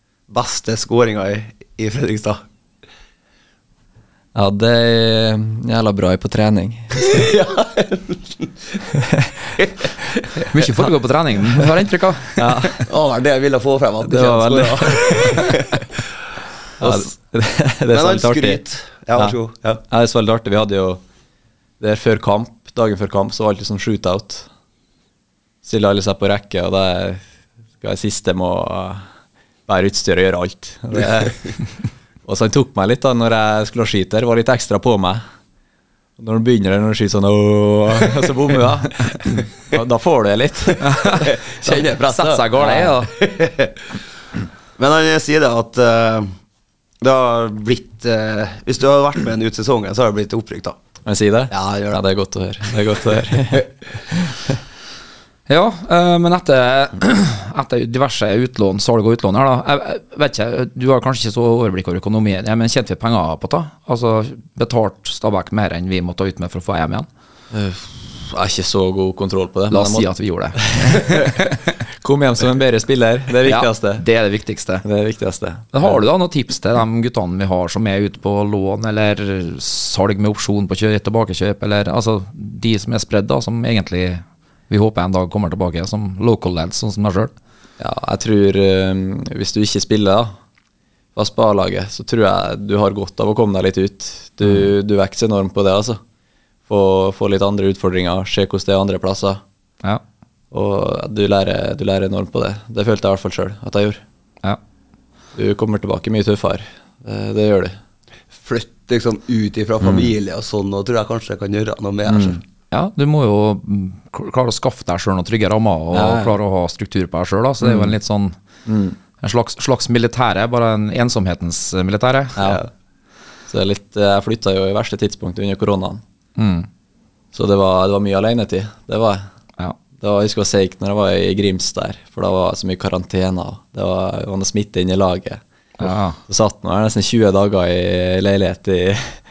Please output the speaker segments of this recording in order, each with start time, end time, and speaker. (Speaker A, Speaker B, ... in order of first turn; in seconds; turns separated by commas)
Speaker A: 0.3-2.4, Speaker B: 4.3-7.2, Speaker A: 7.0-8.5, Speaker B: 8.9-9.5, Speaker A: 9.6-10.4, Speaker C: 10.4-12.7, Speaker B: 12.4-12.9, Speaker A: 12.9-15.9, Speaker B: 14.0-15.6, Speaker A: 16.8-17.1, Speaker B: 16.8-18.6, Speaker A: 17.9-19.8, Speaker B: 19.9-21.0, Speaker B: 21.8-24.5, Speaker B: 25.6-27.2, Speaker B: 27.8-29.0, Speaker B: 29.7-31.4, Speaker B: 32.2-35.2, Speaker B: 36.2-41.0, Speaker C: 40.8-43.1, Speaker A: 41.2-43.8, Speaker A: 44.8-46.3, Speaker A: 47.0-50.8, Speaker B: 51.0-54.5, Speaker A: 51.5-52.0, Speaker C: 55.5-67.1, Speaker B: 67.5-74.0, Speaker C: 69.7-71.8, Speaker C: 73.4-74.8, Speaker B: 74.8-76.0, Speaker C: 75.7-87.3, Speaker B: 87.8-90.3, Speaker B: 91.2-96.0, Speaker B: 96.7-99.4, Speaker B: 100.5-104.0, Speaker B: 105.3-107.8, Speaker A: 108.4-112.4, Speaker B: 112.1-112.4, Speaker C: 112.7-118.4, Speaker B: 115.9-116.4, Speaker B: 117.6-117.9, Speaker B: 118.7-119.0, Speaker C: 119.2-122.4, Speaker B: 122.4-122.6, Speaker B: 123.5-126.0, Speaker C: 126.4-126.7, Speaker B: 127.3-129.2, Speaker B: 130.0-139.2, Speaker C: 135.8-136.2